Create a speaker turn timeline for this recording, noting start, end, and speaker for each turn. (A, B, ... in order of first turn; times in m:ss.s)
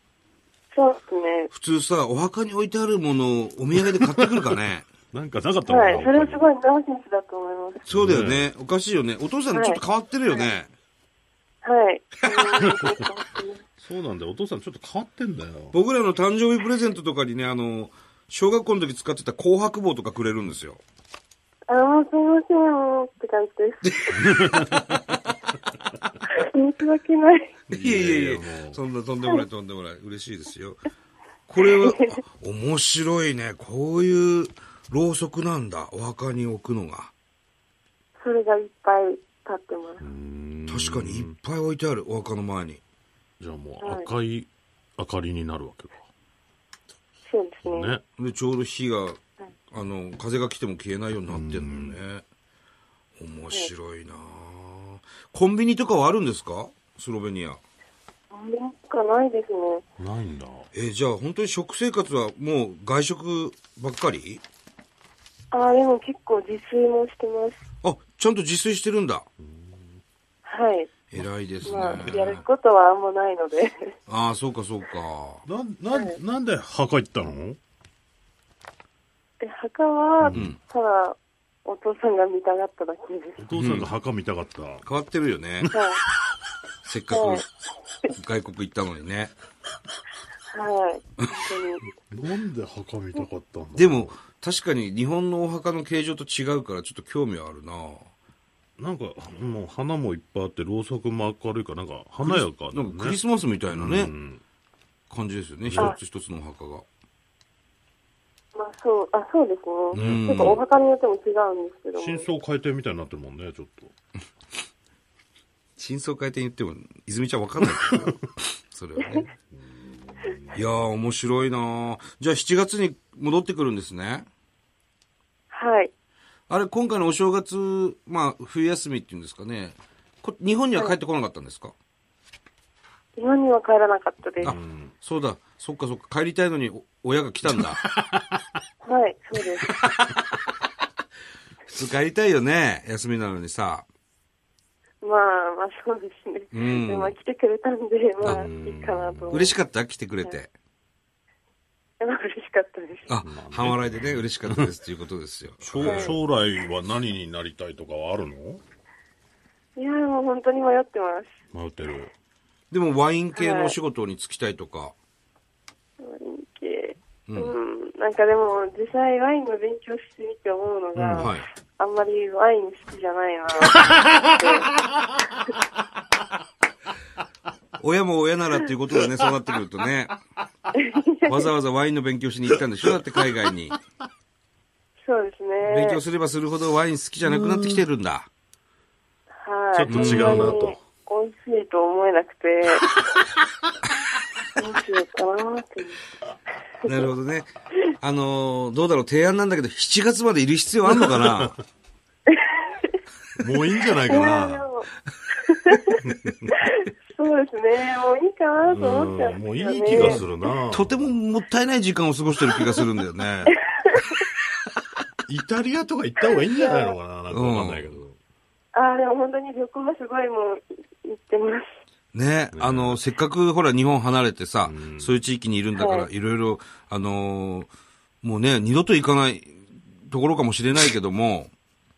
0:00.7-0:01.5 A
0:01.5-0:04.9 B
0:05.1-0:06.5 C
0:05.7-0:07.8 A
0:07.9-0:08.5 C
0:07.9-0:10.7 B
0:09.5-0:10.5 A
0:11.6-0:13.7 A
0:12.2-0:12.7 B
0:12.6-0:13.0 C
0:13.8-0:15.8 C
0:15.7-0:20.8 B
0:21.7-0:24.2 A
0:23.8-0:25.1 B
0:24.2-0:24.8 C
0:26.3-0:27.6 A
0:27.7-0:28.8 C
0:27.7-0:30.8 B
0:31.5-0:37.1 B
0:31.6-0:32.2 A
0:38.2-0:40.0 A
0:40.0-0:41.3 C
0:40.7-0:42.8 B
0:43.4-0:46.0 C
0:43.8-0:44.1 A
0:47.3-0:47.9 A
0:47.6-0:48.0 C
0:48.2-0:49.2 B
0:49.7-0:52.2 B
0:51.3-0:52.0 C
0:53.2-0:57.6 B
0:58.3-0:59.8 A
1:00.0-1:00.7 C
1:00.7-1:04.4 B
1:05.5-1:07.6 A
1:07.8-1:09.3 B
1:09.4-1:10.0 C
1:10.4-1:10.9 A
1:11.1-1:12.4 B
1:11.2-1:12.3 C
1:11.6-1:14.0 A
1:14.1-1:15.4 B
1:15.5-1:17.6 C
1:15.9-1:16.2 A
1:19.4-1:23.4 A
1:20.2-1:20.5 C
1:20.3-1:20.6 B
1:23.4-1:24.8 C
1:23.6-1:23.9 B
1:24.8-1:25.7 B
1:25.7-1:26.0 A
1:26.8-1:27.4 B
1:27.1-1:27.4 A
1:28.1-1:29.3 B
1:30.5-1:31.9 A
1:32.0-1:34.1 C
1:33.8-1:38.1 B
1:38.8-1:43.2 C
1:42.2-1:44.1 B
1:43.7-1:44.4 C
1:45.1-1:46.8 B
1:45.6-1:46.0 C
1:48.5-1:52.3 A
1:49.9-1:50.6 B
1:49.9-1:50.6 C
1:52.0-1:53.9 C
1:55.8-1:59.3 B
1:59.5-2:00.6 C
2:00.5-2:04.3 B
2:05.5-2:05.9 A
2:06.5-2:11.7 B
2:13.2-2:14.6 A
2:14.4-2:14.9 C
2:14.4-2:17.8 B
2:17.6-2:18.3 C
2:18.8-2:19.8 A
2:19.9-2:20.2 B
2:21.7-2:23.8 B
2:25.0-2:29.6 A
2:26.5-2:27.1 B
2:28.2-2:29.5 C
2:29.3-2:30.5 B
2:32.0-2:33.1 A
2:33.1-2:36.2 B
2:33.2-2:34.7 C
2:35.6-2:38.6 C
2:35.8-2:36.2 A
2:39.8-2:41.4 A
2:41.5-2:42.1 C
2:42.7-2:45.0 B
2:43.4-2:43.8 A
2:46.0-2:54.8 A
2:47.3-2:47.5 B
2:51.0-2:51.3 C
2:51.2-2:51.5 B
2:53.8-2:54.3 C
2:57.8-3:00.2 B
3:00.7-3:01.5 A
3:01.3-3:03.8 B
3:05.0-3:06.0 A
3:05.6-3:08.3 B
3:07.2-3:07.8 C
3:09.4-3:13.0 A
3:09.7-3:10.8 C
3:09.9-3:10.6 B
3:14.6-3:16.0 A
3:16.8-3:21.6 B
3:20.9-3:21.5 C
3:22.3-3:23.0 A
3:23.4-3:24.7 C
3:24.1-3:26.0 A
3:26.0-3:26.5 C
3:26.5-3:30.2 A
3:28.6-3:31.1 C
3:30.0-3:33.6 B
3:33.8-3:34.2 A
3:35.3-3:38.2 C
3:36.6-3:37.0 A
3:37.3-3:38.0 B
3:38.7-3:41.8 A
3:42.1-3:47.7 B
3:42.5-3:43.0 C
3:44.6-3:45.2 C
3:45.8-3:46.1 A
3:48.2-3:51.5 B